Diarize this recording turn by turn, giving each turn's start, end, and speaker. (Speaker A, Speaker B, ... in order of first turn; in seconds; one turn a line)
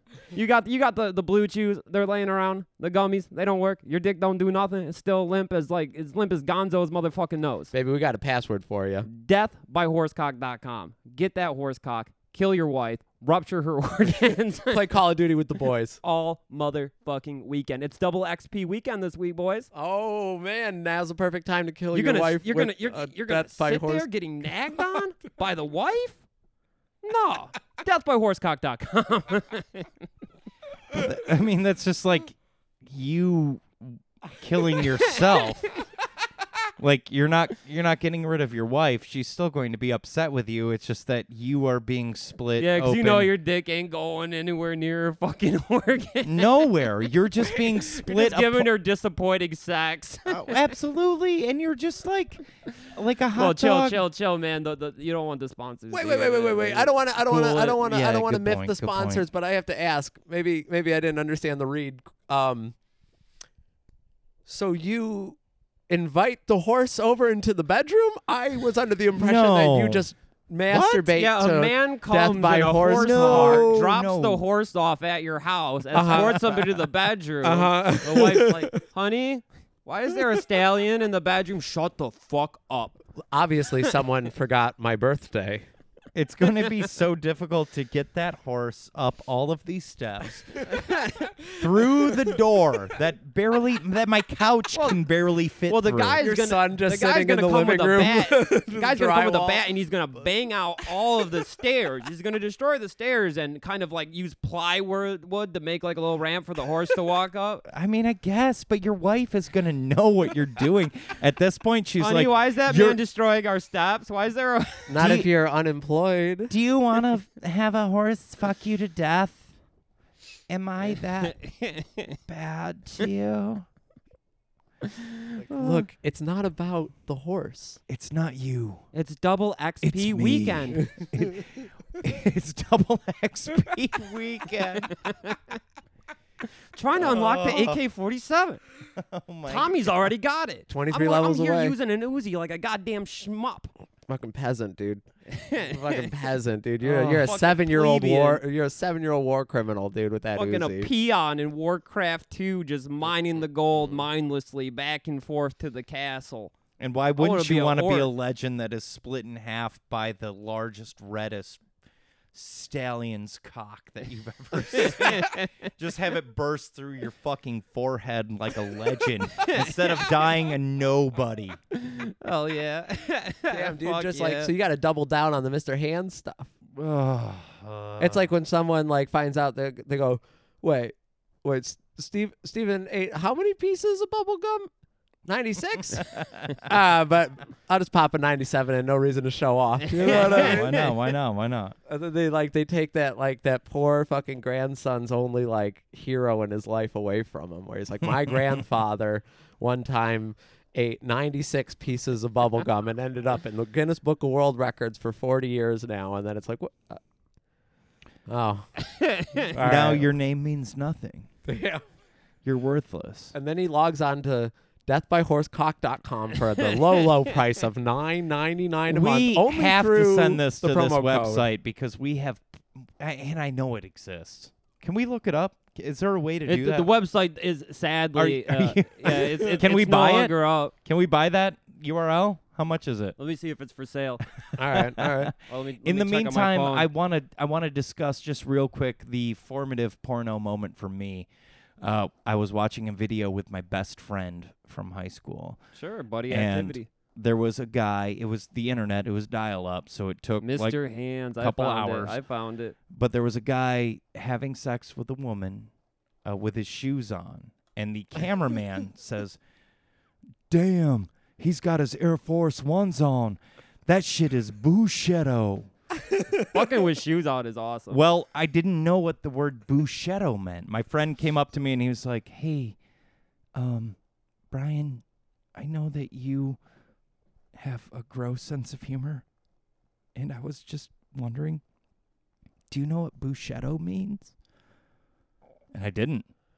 Speaker A: 0.3-7.7
Speaker B: 7.7-9.1
Speaker A: 9.1-14.9
Speaker B: 14.7-16.0
Speaker A: 16.0-19.7
Speaker B: 19.7-24.1
Speaker A: 21.9-26.2
Speaker A: 27.0-29.9
Speaker C: 30.9-35.7
Speaker C: 36.8-43.3
Speaker A: 42.6-46.9
Speaker C: 46.2-48.7
Speaker A: 47.5-50.6
Speaker C: 50.3-54.0
Speaker A: 53.3-56.9
Speaker B: 55.9-62.7
Speaker C: 57.2-59.2
Speaker B: 64.5-65.4
Speaker B: 65.9-73.7
Speaker C: 69.2-70.1
Speaker C: 70.7-71.1
Speaker A: 71.2-83.0
Speaker C: 72.9-74.4
Speaker B: 75.9-76.5
Speaker C: 76.1-76.4
Speaker B: 77.4-78.8
Speaker B: 83.3-85.6
Speaker C: 86.1-90.7
Speaker A: 90.7-91.3
Speaker C: 91.5-96.2
Speaker A: 95.7-107.6
Speaker B: 96.2-99.7
Speaker C: 107.7-113.0
Speaker A: 112.0-115.2
Speaker B: 114.9-116.5
Speaker C: 115.0-115.3
Speaker C: 116.5-119.5
Speaker C: 120.5-121.4
Speaker A: 121.2-122.2
Speaker C: 122.3-123.7
Speaker B: 125.4-127.8
Speaker C: 125.5-125.8
Speaker C: 127.9-128.8
Speaker A: 128.9-130.9
Speaker C: 129.8-134.9
Speaker A: 134.9-135.6
Speaker A: 136.8-138.6
Speaker C: 137.0-137.8
Speaker C: 138.9-140.1
Speaker A: 139.5-143.7
Speaker B: 140.7-141.8
Speaker B: 144.1-145.0
Speaker A: 145.3-146.1
Speaker B: 145.6-150.9
Speaker C: 146.8-147.4
Speaker A: 147.2-148.4
Speaker A: 150.3-156.5
Speaker C: 156.8-161.6
Speaker A: 157.2-158.1
Speaker C: 162.3-171.6
Speaker A: 164.8-165.5
Speaker A: 169.4-170.0
Speaker A: 171.7-174.5
Speaker B: 173.5-176.5
Speaker C: 176.7-178.3
Speaker B: 178.0-184.7
Speaker B: 185.2-191.0
Speaker A: 189.9-190.8
Speaker C: 190.0-191.7
Speaker B: 191.9-207.0
Speaker B: 208.3-208.8
Speaker A: 208.8-209.5
Speaker B: 209.4-210.1
Speaker C: 209.6-211.3
Speaker B: 211.4-211.8
Speaker C: 212.4-213.3
Speaker B: 213.3-221.4
Speaker C: 218.9-226.9
Speaker A: 226.4-230.7
Speaker C: 228.2-233.2
Speaker A: 233.2-234.2
Speaker C: 234.4-241.3
Speaker B: 234.6-235.3
Speaker A: 235.5-236.9
Speaker C: 241.8-245.6
Speaker A: 245.7-246.9
Speaker C: 246.3-250.8
Speaker A: 250.4-252.7
Speaker C: 251.4-252.2
Speaker C: 252.9-255.7
Speaker C: 256.2-259.4
Speaker C: 260.5-265.7
Speaker A: 266.4-268.0
Speaker C: 267.9-272.8
Speaker C: 273.5-274.0
Speaker C: 274.5-275.0
Speaker C: 275.5-276.6
Speaker C: 277.5-279.2
Speaker C: 280.1-281.6
Speaker C: 282.7-284.3
Speaker C: 285.7-286.2